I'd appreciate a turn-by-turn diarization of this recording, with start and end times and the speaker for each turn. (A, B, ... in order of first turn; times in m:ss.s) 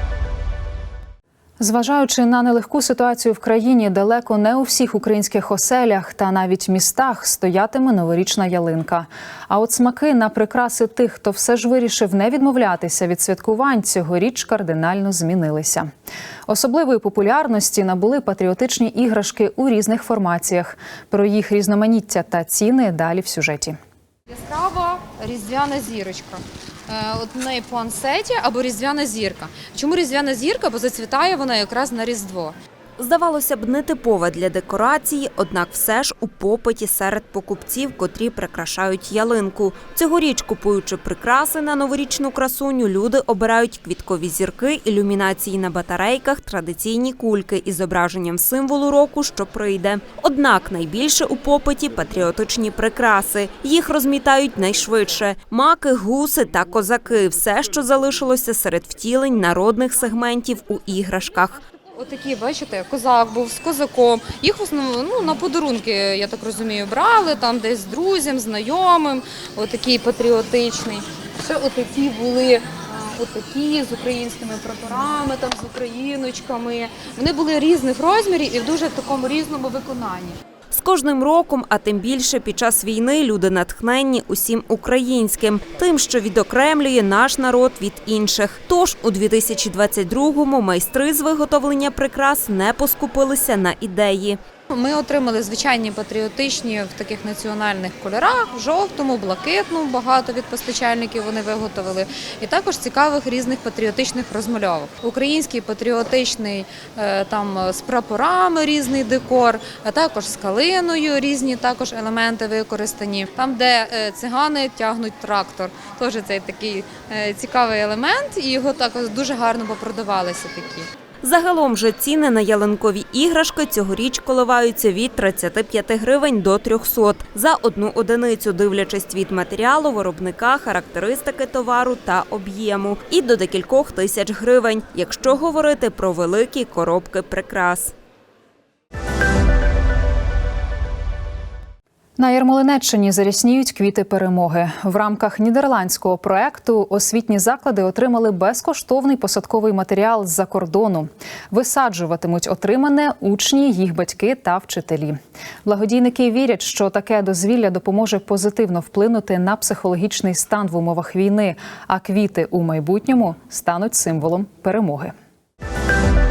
0:01.6-0:15.9 A
0:16.5-0:23.8 A
0:24.4-0:32.6 B
0:33.0-1:01.6 C
1:02.0-1:20.4 B
1:20.7-1:34.4 C
1:34.7-2:00.9 B
2:01.2-2:17.9 C
2:22.2-2:45.1 A